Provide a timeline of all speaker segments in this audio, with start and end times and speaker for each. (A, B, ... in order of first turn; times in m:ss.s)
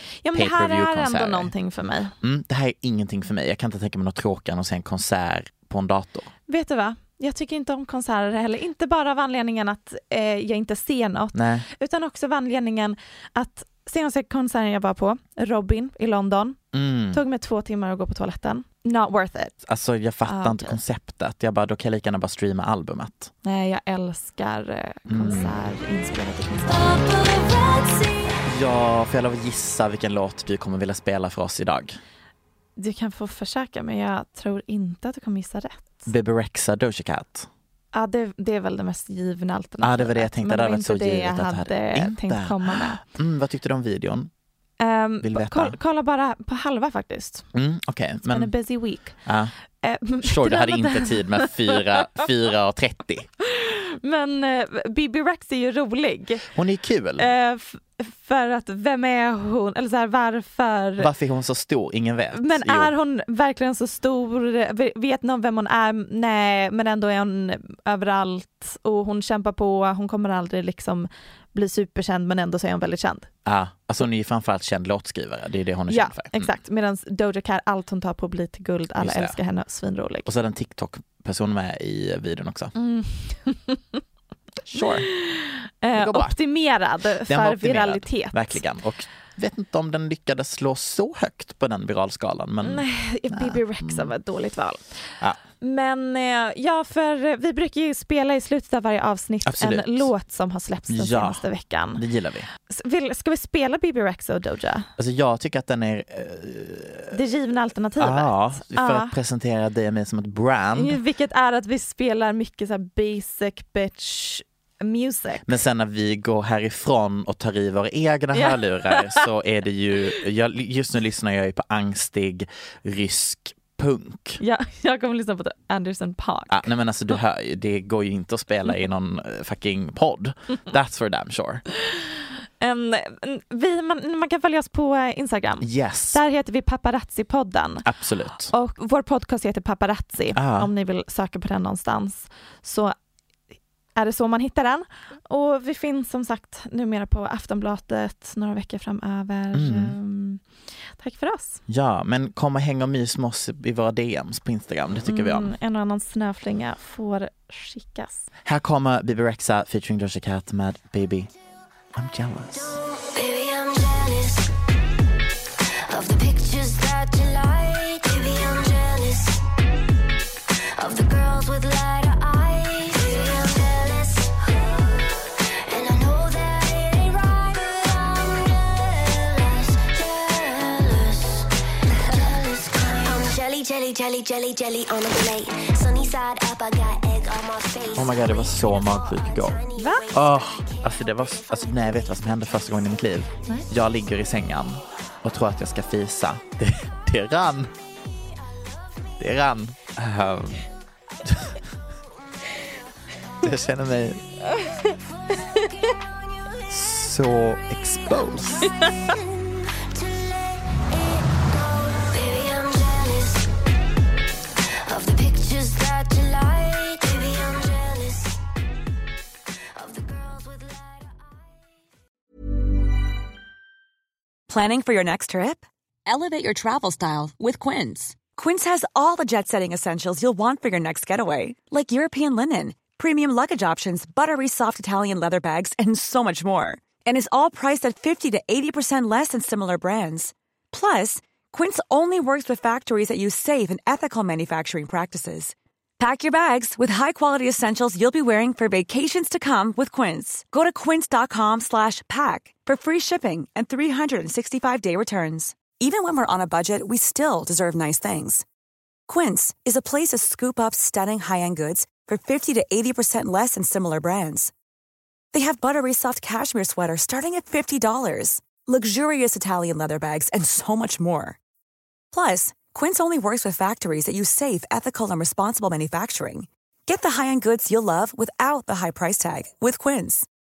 0:00.2-0:02.1 A
0:00.3-0:01.5 B
0:02.2-0:06.3 B
0:06.5-0:16.6 A
0:11.3-0:11.7 B
0:16.7-0:17.2 B
0:17.1-0:19.6 A
0:19.6-0:23.3 B
0:20.2-0:20.8 A
0:23.4-0:26.9 A
0:25.1-0:25.5 B
0:26.6-0:28.4 C
0:28.4-0:32.0 B
0:32.8-0:36.1 A
0:36.1-0:37.5 B
0:37.9-0:43.0 A
0:39.8-0:44.3 B
0:44.8-0:47.5 A
0:45.2-0:45.8 B
0:47.5-0:48.5 B
0:48.2-0:49.2 A
0:49.2-0:49.5 B
0:49.8-0:51.8 A
0:50.2-0:53.3 B
0:53.4-0:56.4 A
0:56.5-0:57.3 B
0:57.2-1:01.1 A
1:01.0-1:02.9 B
1:02.3-1:13.3 A
1:13.4-1:16.5 B
1:15.9-1:20.3 A
1:19.0-1:19.4 B
1:20.2-1:22.7 B
1:22.7-1:24.0 A
1:24.7-1:25.1 B
1:24.7-1:28.6 A
1:25.9-1:26.4 B
1:27.2-1:34.1 B
1:32.6-1:34.8 A
1:35.6-1:42.0 A
1:39.4-1:40.1 B
1:40.9-1:41.4 B
1:41.9-1:42.5 B
1:42.7-1:44.9 A
1:45.0-1:47.2 B
1:47.1-1:49.1 A
1:48.0-1:51.0 B
1:50.7-1:55.5 A
1:55.4-2:04.4 B
1:58.3-1:59.3 A
2:04.4-2:06.7 A
2:06.5-2:11.6 B
2:12.6-2:17.8 A
2:15.6-2:16.2 B
2:17.8-2:18.5 B
2:18.5-2:22.9 A
2:20.3-2:20.7 B
2:24.0-2:30.4 A
2:29.5-2:29.9 B
2:31.0-2:31.6 A
2:31.7-2:35.5 B
2:35.0-2:38.3 A
2:38.4-2:41.3 B
2:42.0-2:42.7 B
2:42.5-2:44.5 C
2:45.9-2:49.4 C
2:50.8-3:13.2 C
3:08.0-3:09.6 B
3:09.7-3:10.1 A
3:10.1-3:17.7 B
3:18.0-3:19.2 C
3:19.2-3:20.6 B
3:21.2-3:21.6 B
3:23.1-3:23.6 C
3:23.4-3:24.2 B
3:24.4-3:33.5 C
3:24.6-3:24.9 A
3:26.7-3:28.7 B
3:28.6-3:29.1 A
3:34.8-3:38.4 C
3:39.8-3:41.6 C
3:44.5-4:18.4 D
4:19.1-4:24.5 D
4:25.3-4:31.4 D
4:32.1-4:40.3 D